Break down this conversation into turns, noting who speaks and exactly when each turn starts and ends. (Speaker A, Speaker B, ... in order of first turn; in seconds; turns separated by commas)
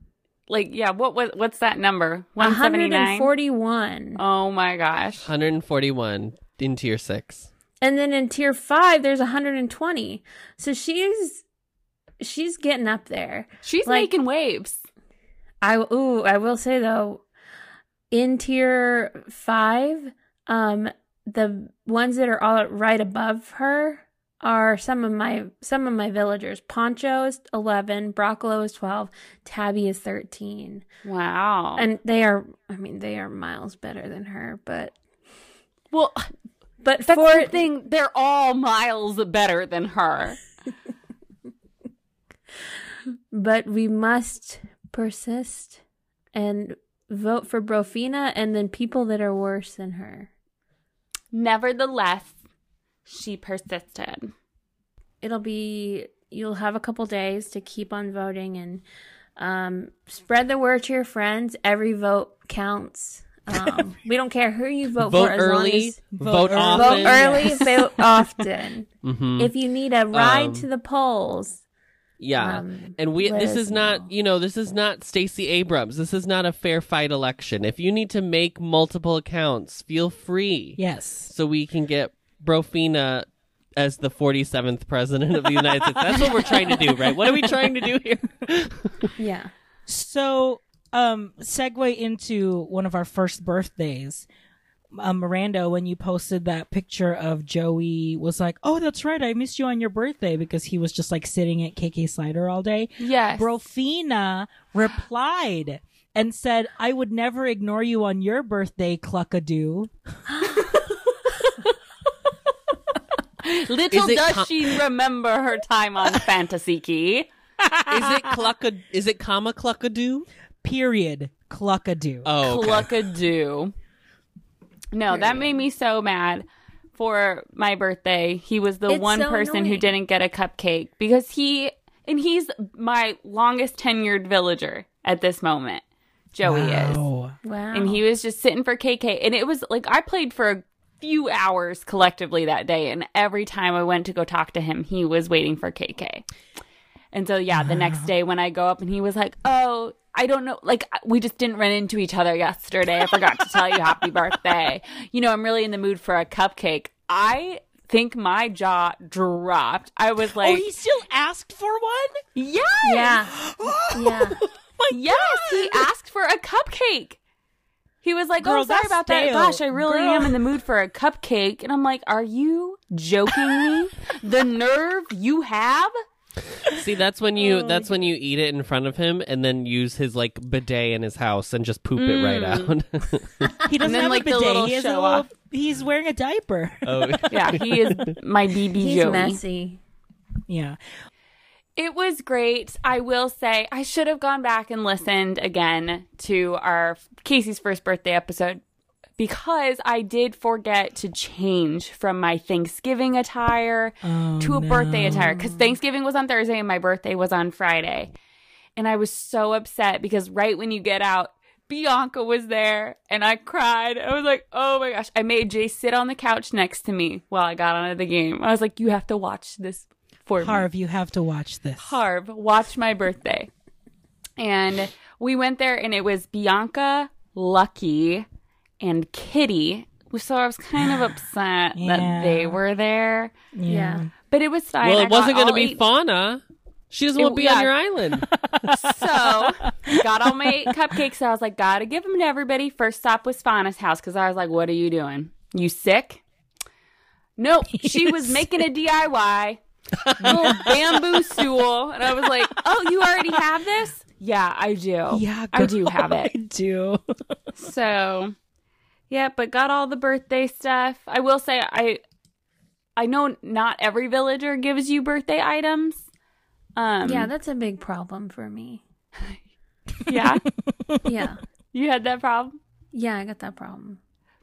Speaker A: 0.5-3.3, Speaker B: 2.4-4.2, Speaker A: 4.2-5.3, Speaker C: 5.2-7.5, Speaker B: 7.8-11.4, Speaker B: 12.2-14.1, Speaker A: 13.6-14.8, Speaker B: 15.6-17.2, Speaker B: 18.1-30.8, Speaker A: 31.0-31.9, Speaker B: 31.8-34.9, Speaker A: 35.9-36.3, Speaker B: 36.8-37.6, Speaker A: 37.1-40.4, Speaker B: 43.3-45.8, Speaker B: 46.3-50.3, Speaker A: 51.3-52.3, Speaker A: 53.0-54.3, Speaker B: 55.2-58.8, Speaker B: 59.4-66.0, Speaker C: 65.0-67.5, Speaker D: 66.1-68.0, Speaker B: 66.7-71.6, Speaker C: 69.0-69.5, Speaker C: 70.1-70.7, Speaker C: 72.2-89.1, Speaker B: 72.4-74.1, Speaker D: 80.8-81.3, Speaker B: 89.2-89.5, Speaker D: 89.9-94.3, Speaker D: 94.9-109.9, Speaker A: 103.0-103.5, Speaker A: 113.4-117.3, Speaker C: 113.9-114.7, Speaker D: 117.6-118.1, Speaker C: 117.9-120.3, Speaker D: 120.6-122.3, Speaker C: 122.2-122.9, Speaker A: 122.4-123.7, Speaker A: 124.9-135.8, Speaker B: 125.1-125.5, Speaker B: 128.9-129.9, Speaker A: 136.3-137.0, Speaker D: 136.4-137.3, Speaker B: 137.4-138.0, Speaker A: 137.7-146.2, Speaker A: 147.1-160.6, Speaker D: 147.5-148.1, Speaker D: 160.4-162.2, Speaker A: 162.3-163.2, Speaker B: 162.8-163.3, Speaker D: 163.3-165.9, Speaker B: 163.9-164.4, Speaker A: 164.9-167.2, Speaker A: 168.0-175.9, Speaker D: 168.4-170.3, Speaker C: 176.7-183.6, Speaker A: 181.9-182.7, Speaker D: 183.6-187.8, Speaker A: 183.8-185.3, Speaker C: 186.8-188.1, Speaker A: 187.3-189.4, Speaker B: 188.8-189.8, Speaker D: 190.5-190.8, Speaker A: 191.8-198.6, Speaker A: 199.2-208.1, Speaker D: 204.0-205.3, Speaker B: 205.1-205.8, Speaker A: 208.8-220.6, Speaker D: 220.4-222.0, Speaker A: 221.8-223.5, Speaker A: 224.4-228.2, Speaker A: 228.8-233.3, Speaker D: 231.8-232.6, Speaker D: 233.6-234.1, Speaker B: 233.7-234.1, Speaker A: 234.3-235.8, Speaker C: 234.8-238.3, Speaker A: 237.2-237.7, Speaker D: 238.3-240.8, Speaker A: 238.7-246.2, Speaker A: 247.4-249.6, Speaker D: 247.8-248.5, Speaker C: 250.0-250.7, Speaker A: 250.2-256.3, Speaker D: 250.2-250.8, Speaker D: 255.1-257.0, Speaker A: 257.6-258.3, Speaker A: 259.1-262.0, Speaker A: 263.0-266.0, Speaker A: 266.8-267.3, Speaker B: 267.0-268.8, Speaker A: 270.1-270.4, Speaker B: 271.0-271.4, Speaker A: 271.7-272.6, Speaker B: 272.9-274.0